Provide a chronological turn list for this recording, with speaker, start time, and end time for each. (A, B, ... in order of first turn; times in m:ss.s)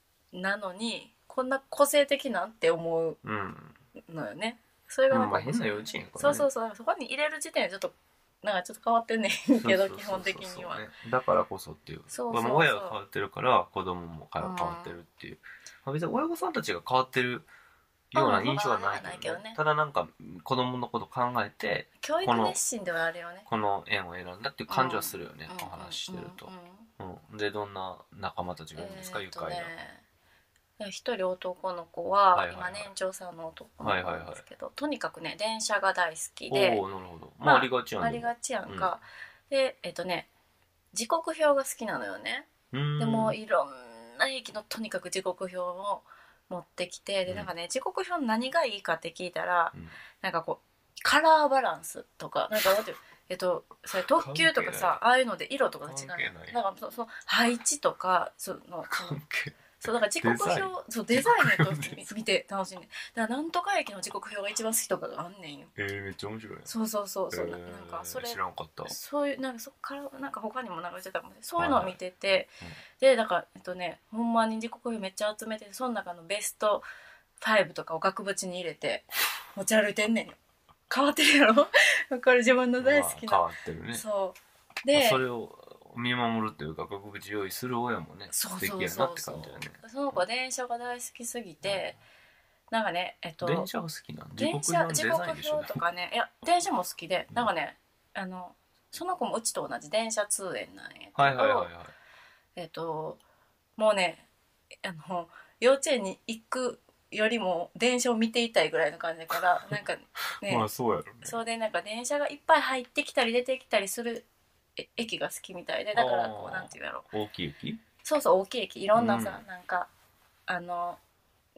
0:00.3-0:03.2 A
0:03.2-0:03.8 B
0:04.0-0:10.8 A
0:05.1-0:06.5 B
0:09.6-0:17.5 B
0:12.1-0:13.0 A
0:14.4-0:15.0 A
0:18.1-0:22.6 B
0:18.2-0:19.6 A
0:22.0-0:23.5 A
0:23.5-0:29.7 B
0:24.7-0:26.9 A
0:28.8-0:30.0 A
0:30.8-0:36.8 A
0:32.3-0:32.9 B
0:33.8-0:34.4 B
0:36.5-0:38.9 B
0:37.4-0:40.3 A
0:40.9-0:59.2 A
0:42.7-0:43.4 B
0:54.2-0:55.0 B
0:55.8-0:56.6 B
0:58.9-1:02.0 B
0:59.8-1:05.7 A
1:05.8-1:06.7 B
1:06.7-1:16.8 A
1:07.3-1:09.0 B
1:11.6-1:12.0 B
1:17.4-1:20.4 A
1:20.9-1:25.2 A
1:22.8-1:24.0 B
1:24.9-1:30.2 B
1:28.3-1:32.0 A
1:31.6-1:31.9 B
1:32.7-1:33.7 A
1:33.4-1:35.8 B
1:34.4-1:41.7 A
1:41.2-1:41.9 B
1:42.6-1:43.2 A
1:43.8-1:44.3 A
1:44.8-1:50.7 A
1:49.4-1:49.8 B
1:50.4-1:51.4 B
1:51.2-1:54.3 A
1:54.8-1:57.1 A
1:55.9-1:57.8 B
1:58.0-1:59.9 A
1:59.0-1:59.4 B
2:00.5-2:01.0 A